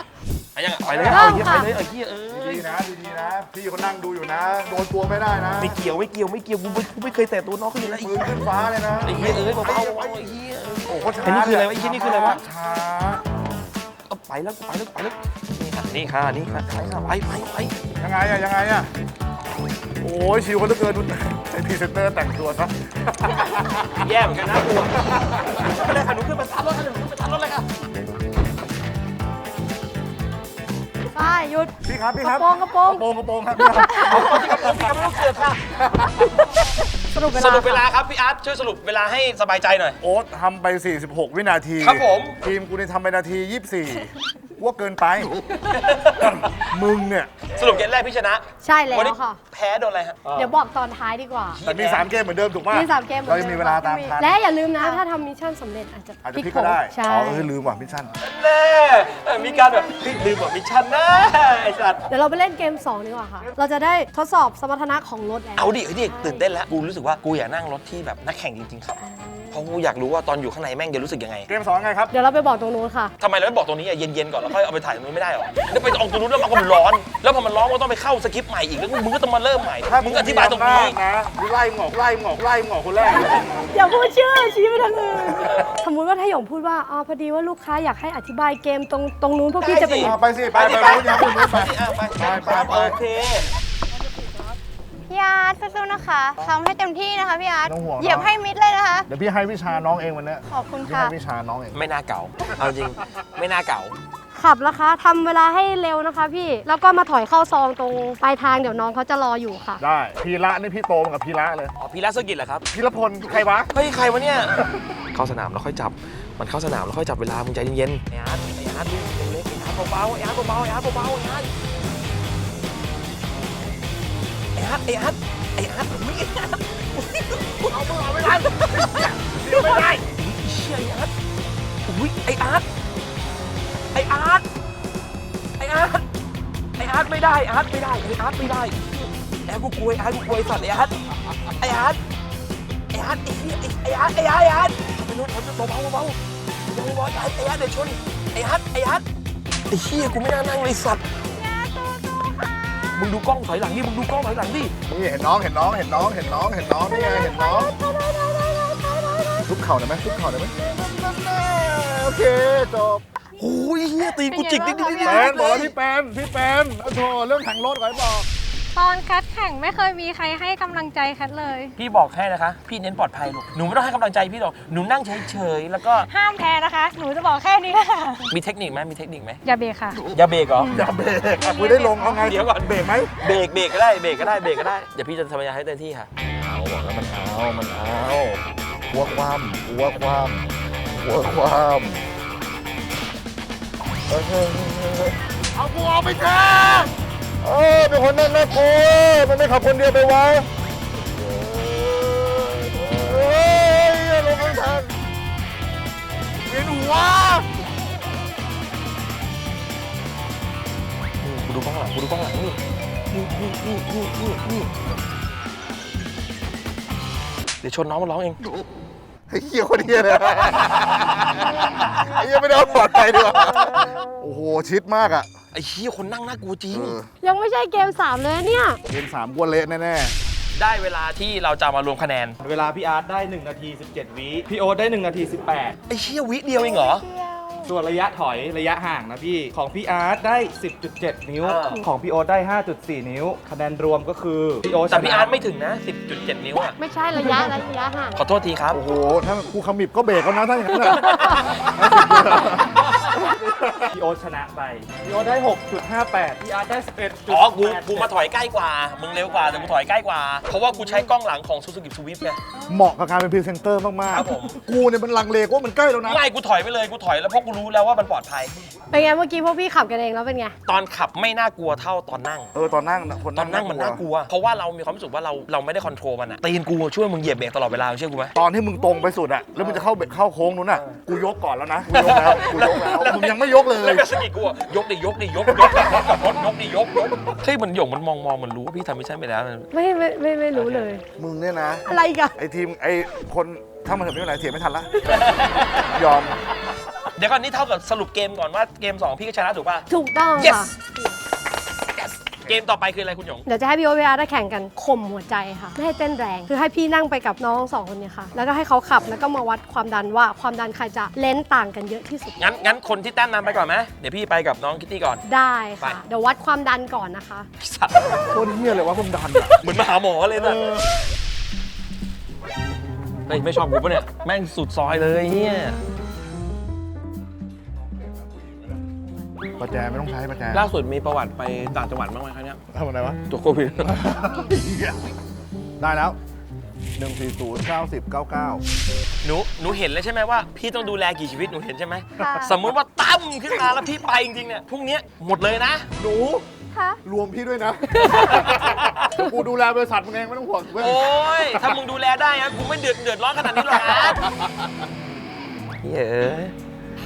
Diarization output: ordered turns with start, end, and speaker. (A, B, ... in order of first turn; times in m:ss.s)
0:00.5-0:02.6 A
0:00.8-0:01.5 B
0:01.1-0:01.7 C
0:02.3-0:05.8 B
0:05.6-0:08.4 A
0:07.8-0:10.3 B
0:09.0-0:12.4 A
0:10.9-0:13.2 B
0:14.1-0:17.7 A
0:18.0-0:18.9 B
0:20.0-0:24.1 B
0:24.0-0:27.7 A
0:25.4-0:25.7 B
0:31.1-0:33.0 C
0:31.8-0:34.9 B
0:33.6-0:34.3 C
0:34.1-0:35.6 A
0:35.8-0:36.3 B
0:37.1-0:37.8 C
0:37.3-0:40.0 A
0:40.0-0:45.3 B
0:41.8-0:42.4 A
0:45.7-0:46.6 A
0:46.2-0:47.5 B
0:47.5-0:50.5 A
0:48.6-0:49.4 C
0:50.3-0:51.6 C
0:51.6-0:52.1 A
0:51.6-0:54.3 B
0:52.7-0:57.5 C
0:56.2-0:58.1 B
0:58.2-1:02.0 A
1:02.1-1:06.4 C
1:05.6-1:09.0 A
1:09.0-1:09.6 C
1:09.5-1:11.5 A
1:11.5-1:12.1 B
1:12.1-1:13.1 C
1:13.2-1:21.0 A
1:19.9-1:23.5 B
1:23.4-1:30.2 C
1:29.6-1:33.5 A
1:30.0-1:33.0 B
1:35.1-1:39.1 D
1:37.6-1:38.3 B
1:39.1-1:41.8 B
1:40.5-1:41.1 D
1:41.7-1:44.0 A
1:44.3-1:49.8 C
1:49.8-1:51.7 B
1:51.8-1:52.6 A
1:52.7-1:53.7 B
1:53.7-2:01.5 A
2:04.6-2:11.1 A
2:07.7-2:10.0 B
2:11.9-2:12.6 A
2:13.9-2:14.5 A
2:15.6-2:16.0 A
2:16.8-2:21.0 A
2:21.6-2:22.0 A
2:22.9-2:29.0 A
2:29.7-2:31.0 A
2:31.2-2:33.0 E
2:32.9-2:34.7 A
2:34.9-2:37.7 B
2:36.8-2:39.5 E
2:39.4-2:43.0 B
2:40.1-2:40.8 E
2:43.4-2:45.7 A
2:44.0-2:45.7 E
2:45.0-2:48.3 B
2:48.7-2:51.7 E
2:51.8-2:56.1 A
2:56.1-2:58.3 E
2:58.3-2:59.4 A
2:59.4-3:02.4 E
3:00.1-3:00.8 A
3:00.7-3:03.3 B
3:02.2-3:06.1 A
3:06.4-3:12.0 B
3:14.1-3:20.5 B
3:21.0-3:25.0 B
3:26.4-3:27.5 B
3:31.2-3:32.6 A
3:33.1-3:34.7 B
3:33.9-3:34.4 A
3:37.6-3:38.4 A
3:39.3-3:45.3 B
3:41.4-3:42.2 A
3:43.1-3:43.9 A
3:45.5-3:47.0 A
3:46.7-3:47.1 B
3:47.2-3:48.8 C
3:48.9-3:50.1 B
3:50.5-3:52.4 A
3:52.4-3:55.8 F
3:55.9-3:57.0 A
3:56.6-3:57.7 D
3:57.6-4:05.3 F
4:01.4-4:01.8 A
4:04.9-4:06.8 A
4:06.8-4:08.2 C
4:08.2-4:08.8 A
4:08.7-4:13.9 B
4:11.1-4:11.5 A
4:13.8-4:18.1 F
4:17.3-4:22.4 A
4:22.7-4:26.2 B
4:24.1-4:24.6 A
4:26.0-4:28.6 A
4:28.9-4:30.5 C
4:30.6-4:32.5 A
4:32.5-4:34.0 B
4:33.3-4:38.3 A
4:38.3-4:44.1 B
4:41.9-4:49.7 A
4:49.7-4:51.0 C
4:50.5-4:50.9 A
4:51.2-4:51.8 B
4:51.8-4:52.4 C
4:52.4-4:55.2 B
4:55.0-4:56.0 A
4:55.9-4:56.4 B
4:57.2-4:59.9 A
4:59.9-5:01.2 C
5:00.4-5:00.7 A
5:02.0-5:03.4 A
5:03.4-5:12.4 C
5:12.4-5:15.2 A
5:15.2-5:17.5 C
5:17.6-5:18.4 A
5:18.2-5:19.6 B
5:19.5-5:20.8 A
5:20.3-5:20.9 B
5:23.3-5:25.8 A
5:29.6-5:30.7 B
5:30.5-5:32.6 A
5:32.7-5:33.2 B
5:33.3-5:34.1 A
5:33.8-5:35.0 B
5:35.8-5:36.2 B
5:37.0-5:38.6 B
5:39.2-5:45.9 A
5:42.2-5:42.6 D
5:46.0-5:46.4 B
5:46.7-5:47.0 D
5:47.0-5:51.6 B
5:48.2-5:49.1 A
5:50.8-5:54.3 A
5:53.9-5:54.7 B
5:55.8-5:56.5 A